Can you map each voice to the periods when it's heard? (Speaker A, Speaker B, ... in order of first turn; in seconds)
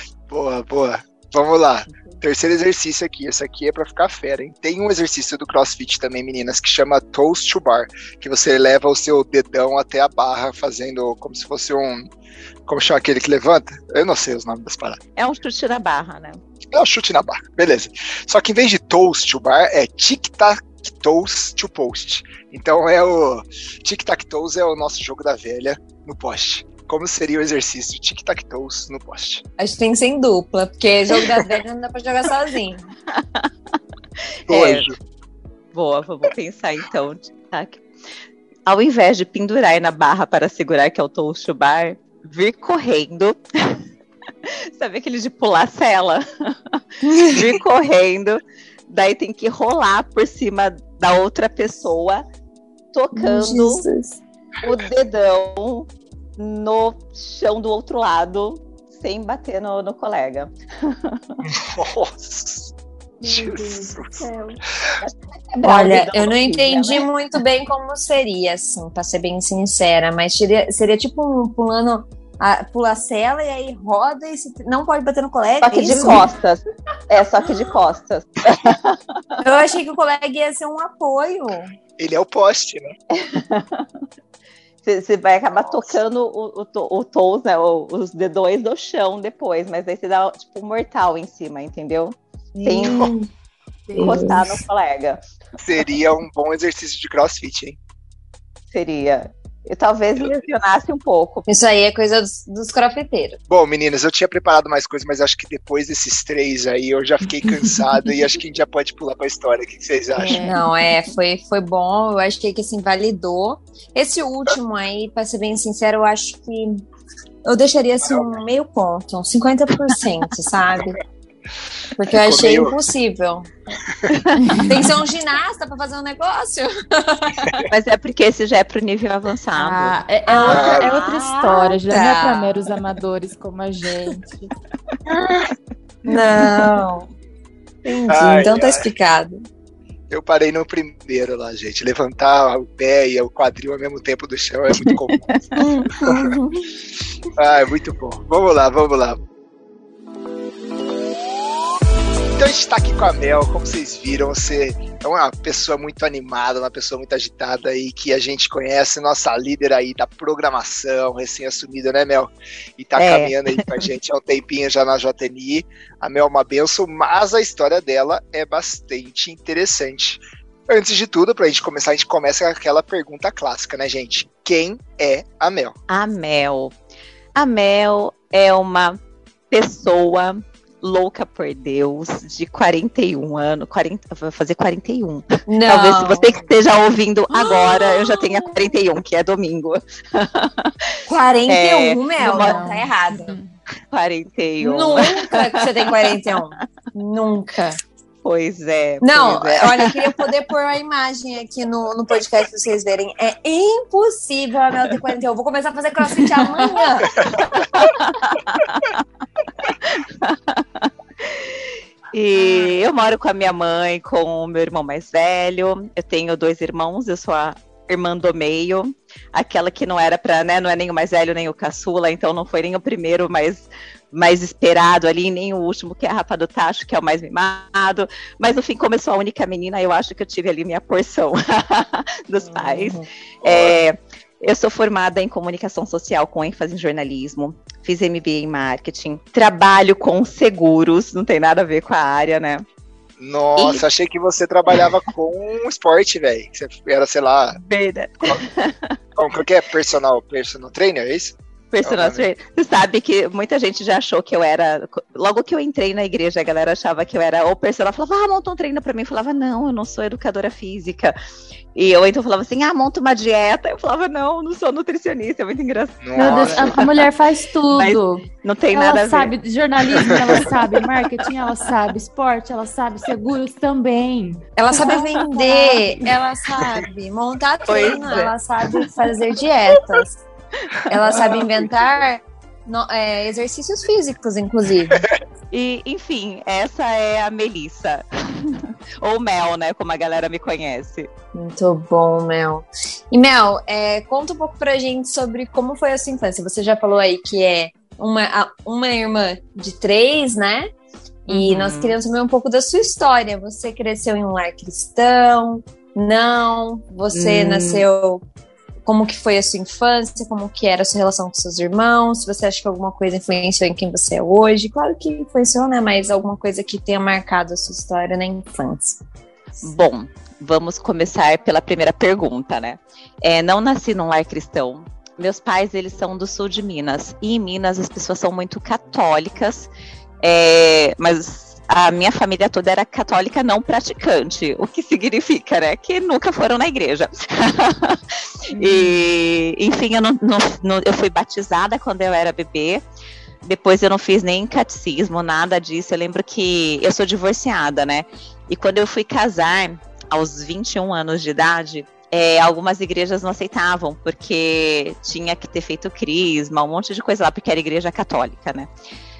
Speaker A: 0.3-12.1, 12.7-15.0, 16.7-29.4, 34.5-34.9, 61.5-62.7, 63.2-64.2, 82.0-82.9, 95.6-97.8, 103.5-110.5, 118.0-118.4, 122.1-122.7, 130.4-130.9, 135.1-135.5, 138.1-138.9, 140.1-146.3, 147.3-149.2, 152.4-175.8, 207.3-207.9, 233.4-233.8, 243.2-247.6, 249.2-252.2, 266.0-266.8, 270.1-270.5, 281.1-281.4
Speaker B: 15.2-16.4, 33.1-33.5, 34.5-34.9, 35.7-37.8, 38.7-43.8, 44.5-52.2, 52.9-53.8, 54.6-61.3, 65.0-67.1, 75.6-79.0, 83.1-83.8, 84.8-93.1, 94.0-95.2, 98.7-101.5, 124.1-124.6, 127.7-129.9, 130.5-130.8, 162.9-163.6, 175.9-176.7, 177.3-179.0, 179.5-190.8, 191.5-192.8, 193.9-196.2, 198.2-200.0, 207.7-209.0, 209.6-242.6, 243.6-243.8, 247.6-248.9, 251.7-261.1, 261.7-267.0, 267.7-269.3, 270.0-270.3, 277.6-278.3, 281.1-281.5, 285.5-291.1, 301.3-302.0, 307.1-307.9, 319.6-329.7, 330.2-342.8, 343.4-358.7
Speaker C: 29.6-32.8, 47.0-47.4, 53.1-54.2, 64.2-64.5, 65.6-76.3, 79.4-81.7, 92.5-93.3, 93.9-94.5, 101.5-103.4, 110.2-116.8, 117.4-121.0, 122.0-123.5, 124.6-127.7, 130.2-132.7, 133.8-134.1, 136.1-137.1, 137.8-139.4, 145.6-146.7, 185.5-186.4, 187.3-188.5, 191.1-193.4, 194.6-197.8, 199.0-207.1, 232.4-233.1, 274.6-280.2, 280.9-285.1, 291.3-300.7, 301.3-308.2, 308.8-319.0
Speaker D: 63.2-64.2, 129.6-134.5, 192.2-193.5, 266.1-276.1, 338.6-339.0